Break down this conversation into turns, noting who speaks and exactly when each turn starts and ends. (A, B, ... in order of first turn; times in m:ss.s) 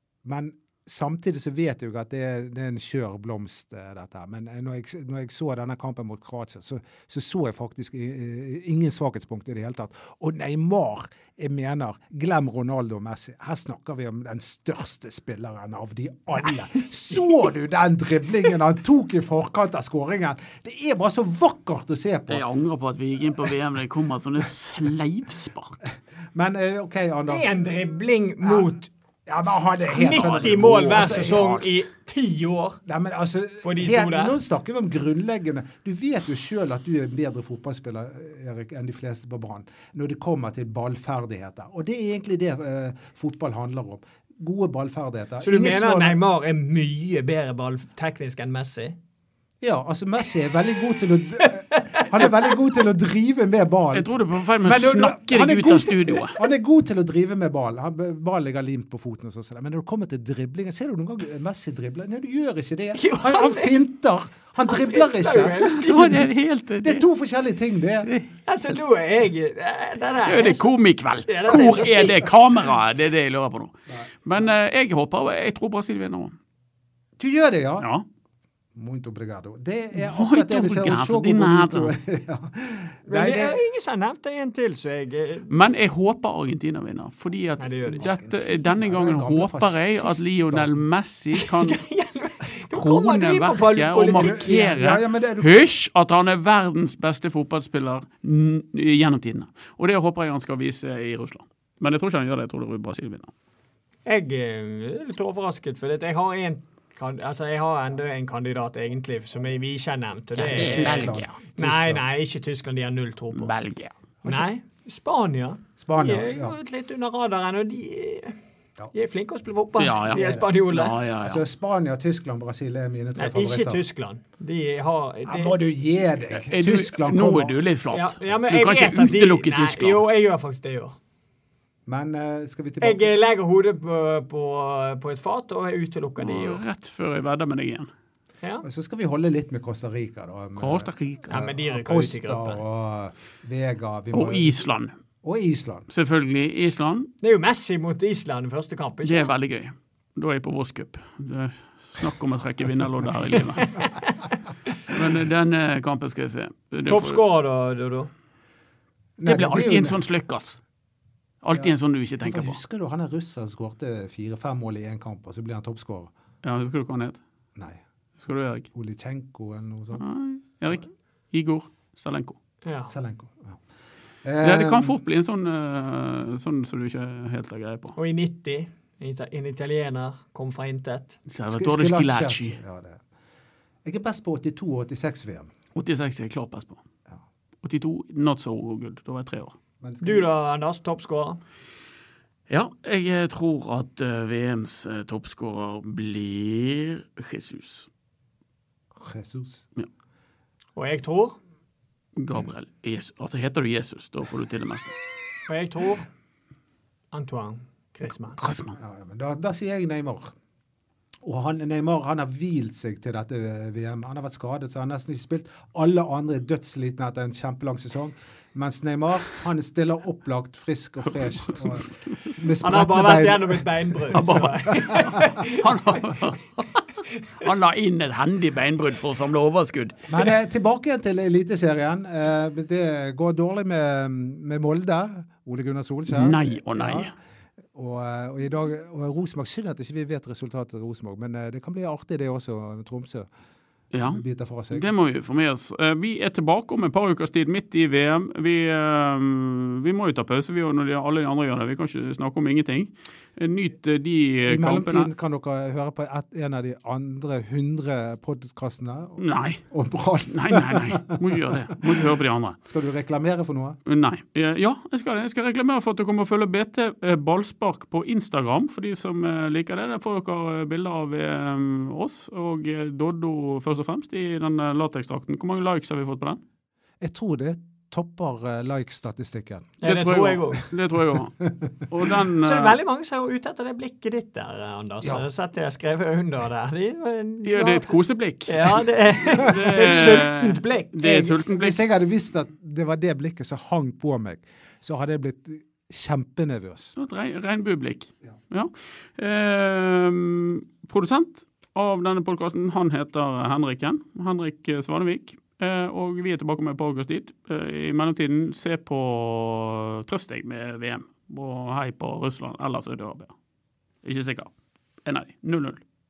0:00.2-0:22.4 A
0:22.3-0:25.8 B
0:26.3-0:27.5 A
0:27.3-0:28.9 C
0:28.4-0:28.7 A
0:29.3-0:31.8 A
0:29.9-0:32.8 C
0:30.1-0:31.2 B
0:32.9-0:46.2 A
0:33.6-0:34.4 C
0:45.4-0:49.0 C
0:49.6-0:54.1 A
0:51.2-0:52.3 C
0:53.9-0:56.4 B
0:54.6-1:05.7 A
1:03.0-1:03.8 C
1:04.7-1:06.2 C
1:05.6-1:07.0 B
1:06.8-1:08.1 A
1:08.0-1:08.4 B
1:08.5-1:10.7 C
1:10.2-1:16.4 B
1:11.3-1:12.6 C
1:17.2-1:17.9 A
1:18.8-1:23.6 A
1:20.0-1:21.9 B
1:23.1-1:25.5 C
1:25.5-1:31.8 B
1:27.6-1:28.1 C
1:28.0-1:30.8 A
1:31.3-1:34.8 C
1:32.7-1:43.3 B
1:34.1-1:35.7 A
1:44.1-1:53.5 C
1:50.4-1:51.3 B
1:50.5-1:52.0 A
1:53.3-1:53.9 B
1:54.2-1:58.4 C
1:55.8-1:56.6 A
1:58.9-2:01.0 C
1:59.8-2:01.4 B
2:00.1-2:00.5 A
2:01.2-2:03.8 A
2:03.2-2:05.6 C
2:05.3-2:07.6 A
2:06.3-2:10.0 B
2:07.9-2:11.0 C
2:11.9-2:13.1 A
2:12.8-2:16.6 C
2:16.2-2:17.9 B
2:18.6-2:24.6 A
2:20.6-2:21.5 B
2:21.3-2:22.6 C
2:24.1-2:24.9 B
2:25.2-2:25.9 A
2:25.9-2:27.1 B
2:27.2-2:29.3 C
2:29.0-2:33.8 B
2:33.5-2:34.1 C
2:34.9-2:37.2 B
2:36.9-2:38.1 C
2:39.2-2:40.0 A
2:39.2-2:40.6 B
2:41.4-2:42.6 B
2:41.5-2:46.1 A
2:46.4-2:47.2 B
2:48.2-2:48.7 B
2:48.7-2:50.0 A
2:50.0-2:52.4 B
2:52.6-2:52.9 C
2:52.9-2:53.6 A
2:54.2-2:55.0 A
2:54.4-2:58.0 B
2:58.0-3:01.2 C
3:01.3-3:02.6 B
3:01.5-3:03.0 A
3:03.8-3:05.5 A
3:05.8-3:06.8 B
3:07.6-3:09.6 B
3:09.8-3:10.3 A
3:10.0-3:11.4 C
3:12.5-3:17.9 B
3:19.0-3:19.7 A
3:20.8-3:21.4 C
3:22.2-3:25.0 B
3:25.5-3:26.1 C
3:27.1-3:28.4 C
3:28.4-3:28.8 B
3:28.8-3:30.3 A
3:31.2-3:45.4 A
3:42.6-3:46.1 C
3:44.1-3:50.2 B
3:50.1-3:57.1 A
3:56.1-3:57.1 B
3:57.7-4:03.3 A
4:03.9-4:15.1 B
4:04.0-4:04.9 A
4:14.4-4:22.0 A
4:19.2-4:19.6 B
4:20.3-4:22.6 B
4:22.6-4:23.8 A
4:23.9-4:36.4 B
4:37.0-4:39.8 A
4:39.8-4:40.6 C
4:39.8-4:41.4 B
4:41.4-4:41.7 A
4:41.9-4:42.8 B
4:42.4-4:48.0 C
4:47.4-4:51.8 B
4:48.5-4:51.4 C
4:49.4-4:50.1 A
4:51.6-4:57.0 A
4:57.0-5:13.3 B
5:14.0-5:14.5 B
5:15.0-5:15.8 B